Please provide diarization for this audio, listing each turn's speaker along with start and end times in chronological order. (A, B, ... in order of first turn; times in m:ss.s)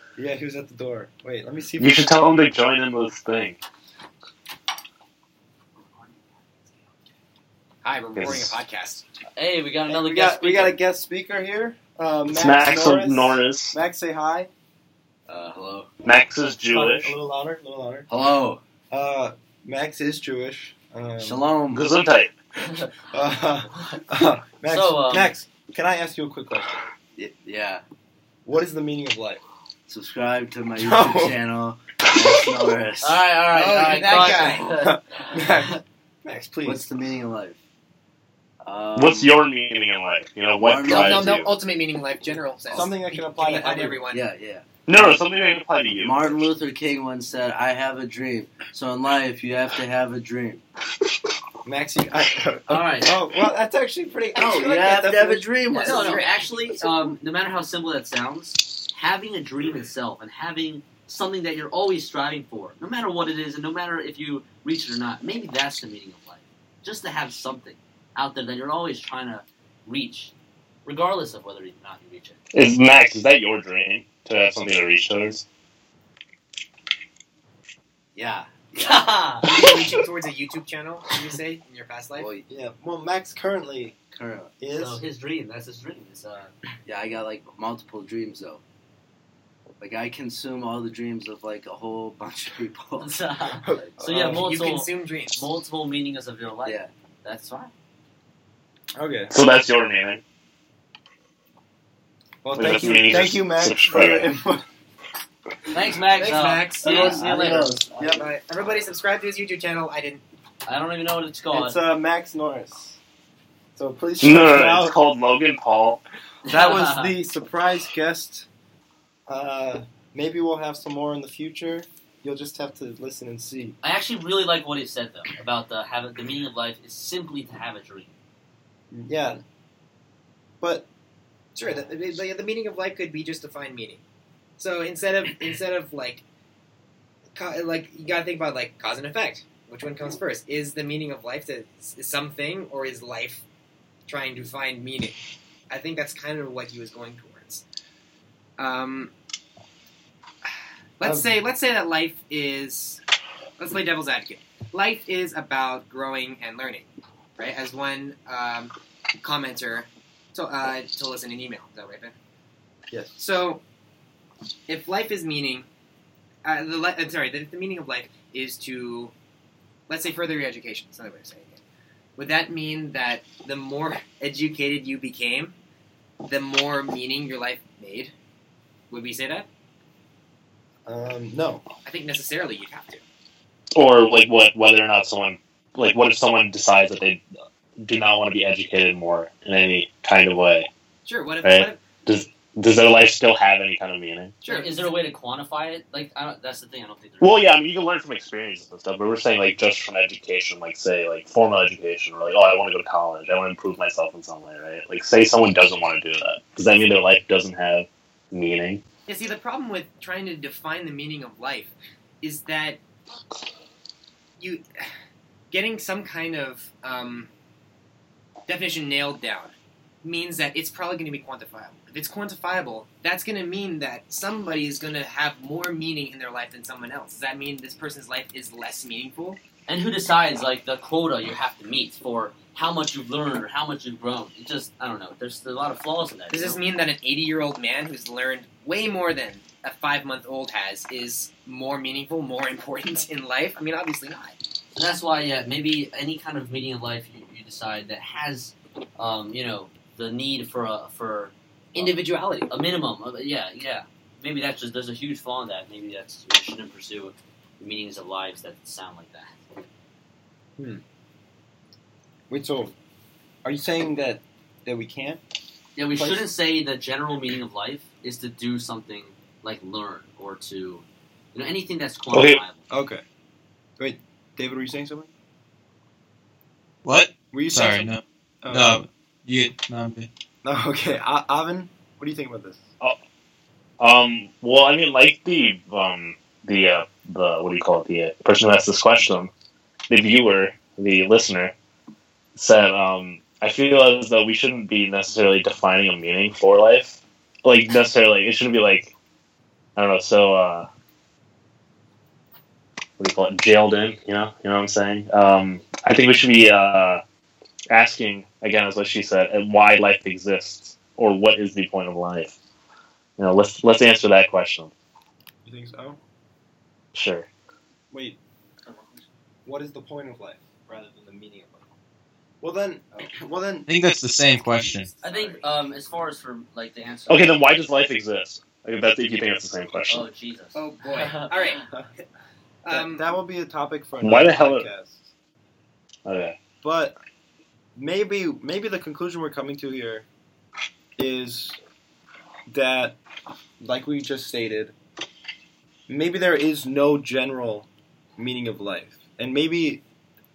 0:00.2-0:02.2 A
0:01.8-0:03.6 B
0:07.8-0:09.1 C
0:08.2-0:08.6 B
0:09.4-0:10.8 D
0:09.9-0:14.5 A
0:12.3-0:13.8 B
0:15.3-0:15.9 E
0:16.0-0:17.1 B
0:16.7-0:18.1 A
0:18.1-0:18.6 E
0:18.9-0:21.4 A
0:21.2-0:21.8 E
0:21.7-0:22.3 B
0:23.1-0:26.9 A
0:24.7-0:25.3 D
0:27.2-0:27.8 E
0:28.4-0:29.4 A
0:29.9-0:33.2 E
0:30.8-0:31.4 A
0:33.0-0:34.9 D
0:33.5-0:34.7 C
0:34.8-0:36.8 A
0:36.6-0:37.6 E
0:38.6-0:39.3 E
0:39.0-0:41.5 B
0:40.6-0:41.4 E
0:40.9-0:44.2 C
0:42.7-0:44.0 A
0:44.1-0:45.1 E
0:44.9-0:46.4 B
0:46.0-0:50.6 E
0:51.6-0:55.5 A
0:52.7-0:53.2 D
0:54.4-0:56.2 E
0:55.7-1:10.3 D
0:55.8-0:56.9 C
1:10.8-1:12.4 D
1:12.5-1:15.4 B
1:18.1-1:19.1 E
1:18.6-1:19.5 D
1:19.4-1:22.3 C
1:22.2-1:22.4 E
1:22.5-1:24.0 A
1:24.1-1:24.5 E
1:24.6-1:25.0 A
1:24.7-1:26.5 D
1:26.8-1:28.6 E
1:29.8-1:33.2 E
1:33.0-1:37.7 D
1:33.6-1:34.5 A
1:34.1-1:35.5 C
1:36.6-1:36.9 E
1:39.0-1:39.3 A
1:39.3-1:40.2 B
1:42.4-1:44.6 A
1:42.5-1:44.2 B
1:45.7-1:47.7 D
1:46.2-1:50.2 C
1:46.9-1:48.3 A
1:50.6-1:51.8 D
1:51.5-1:53.0 A
1:53.7-1:55.0 A
1:54.2-1:56.0 B
1:56.4-1:57.1 D
1:56.5-1:58.5 A
1:59.3-2:03.8 A
2:03.8-2:08.1 D
2:08.9-2:09.4 A
2:10.6-2:10.9 A
2:11.5-2:14.0 C
2:14.6-2:16.2 C
2:17.3-2:23.4 C
2:24.0-2:25.2 C
2:25.7-2:27.6 C
2:28.6-2:29.1 C
2:31.0-2:33.0 C
2:31.0-2:31.3 A
2:33.6-2:42.1 C
2:43.2-2:43.6 C
2:44.7-2:45.7 C
2:46.4-2:49.1 C
2:49.9-2:51.6 C
2:52.2-2:55.6 C
2:56.2-2:58.1 C
2:58.9-2:59.5 C
3:00.8-3:01.6 A
3:01.8-3:03.0 C
3:03.7-3:07.2 B
3:07.8-3:10.7 B
3:11.0-3:11.9 C
3:11.4-3:14.4 B
3:14.4-3:14.9 C
3:14.5-3:17.4 D
3:17.2-3:28.8 B
3:29.1-3:32.8 C
3:34.4-3:34.9 C
3:35.5-3:37.3 C
3:38.5-3:49.4 C
3:49.7-3:56.6 D
3:56.3-4:04.4 C
4:04.7-4:19.4 D
4:11.7-4:12.5 C
4:22.3-4:22.7 A
4:23.4-4:25.2 A
4:25.8-4:32.7 D
4:26.0-4:26.2 A
4:32.1-4:32.4 B
4:32.7-4:33.0 A
4:33.8-4:35.1 A
4:36.8-4:40.1 F
4:37.3-4:38.8 A
4:40.4-4:42.7 A
4:43.8-4:49.3 B
4:49.9-4:51.5 B
4:52.4-4:58.9 B
4:59.8-5:00.7 B
5:03.0-5:07.0 B
5:07.7-5:12.4 B
5:13.2-5:14.7 B
5:15.4-5:16.0 A
5:16.9-5:17.3 B
5:17.9-5:18.2 A
5:18.7-5:19.0 D
5:19.4-5:21.7 A
5:22.4-5:23.7 A
5:23.7-5:24.9 F
5:24.8-5:25.4 C
5:25.0-5:27.3 D
5:27.1-5:30.1 B
5:29.9-5:31.6 D
5:30.5-5:31.6 C
5:32.6-5:33.0 C
5:32.7-5:35.1 A
5:34.0-5:34.7 B
5:36.0-5:36.4 B
5:36.6-5:37.0 A
5:37.8-5:40.1 A
5:41.0-5:41.6 A
5:42.5-5:43.0 A
5:43.6-5:44.7 A
5:45.9-5:49.8 A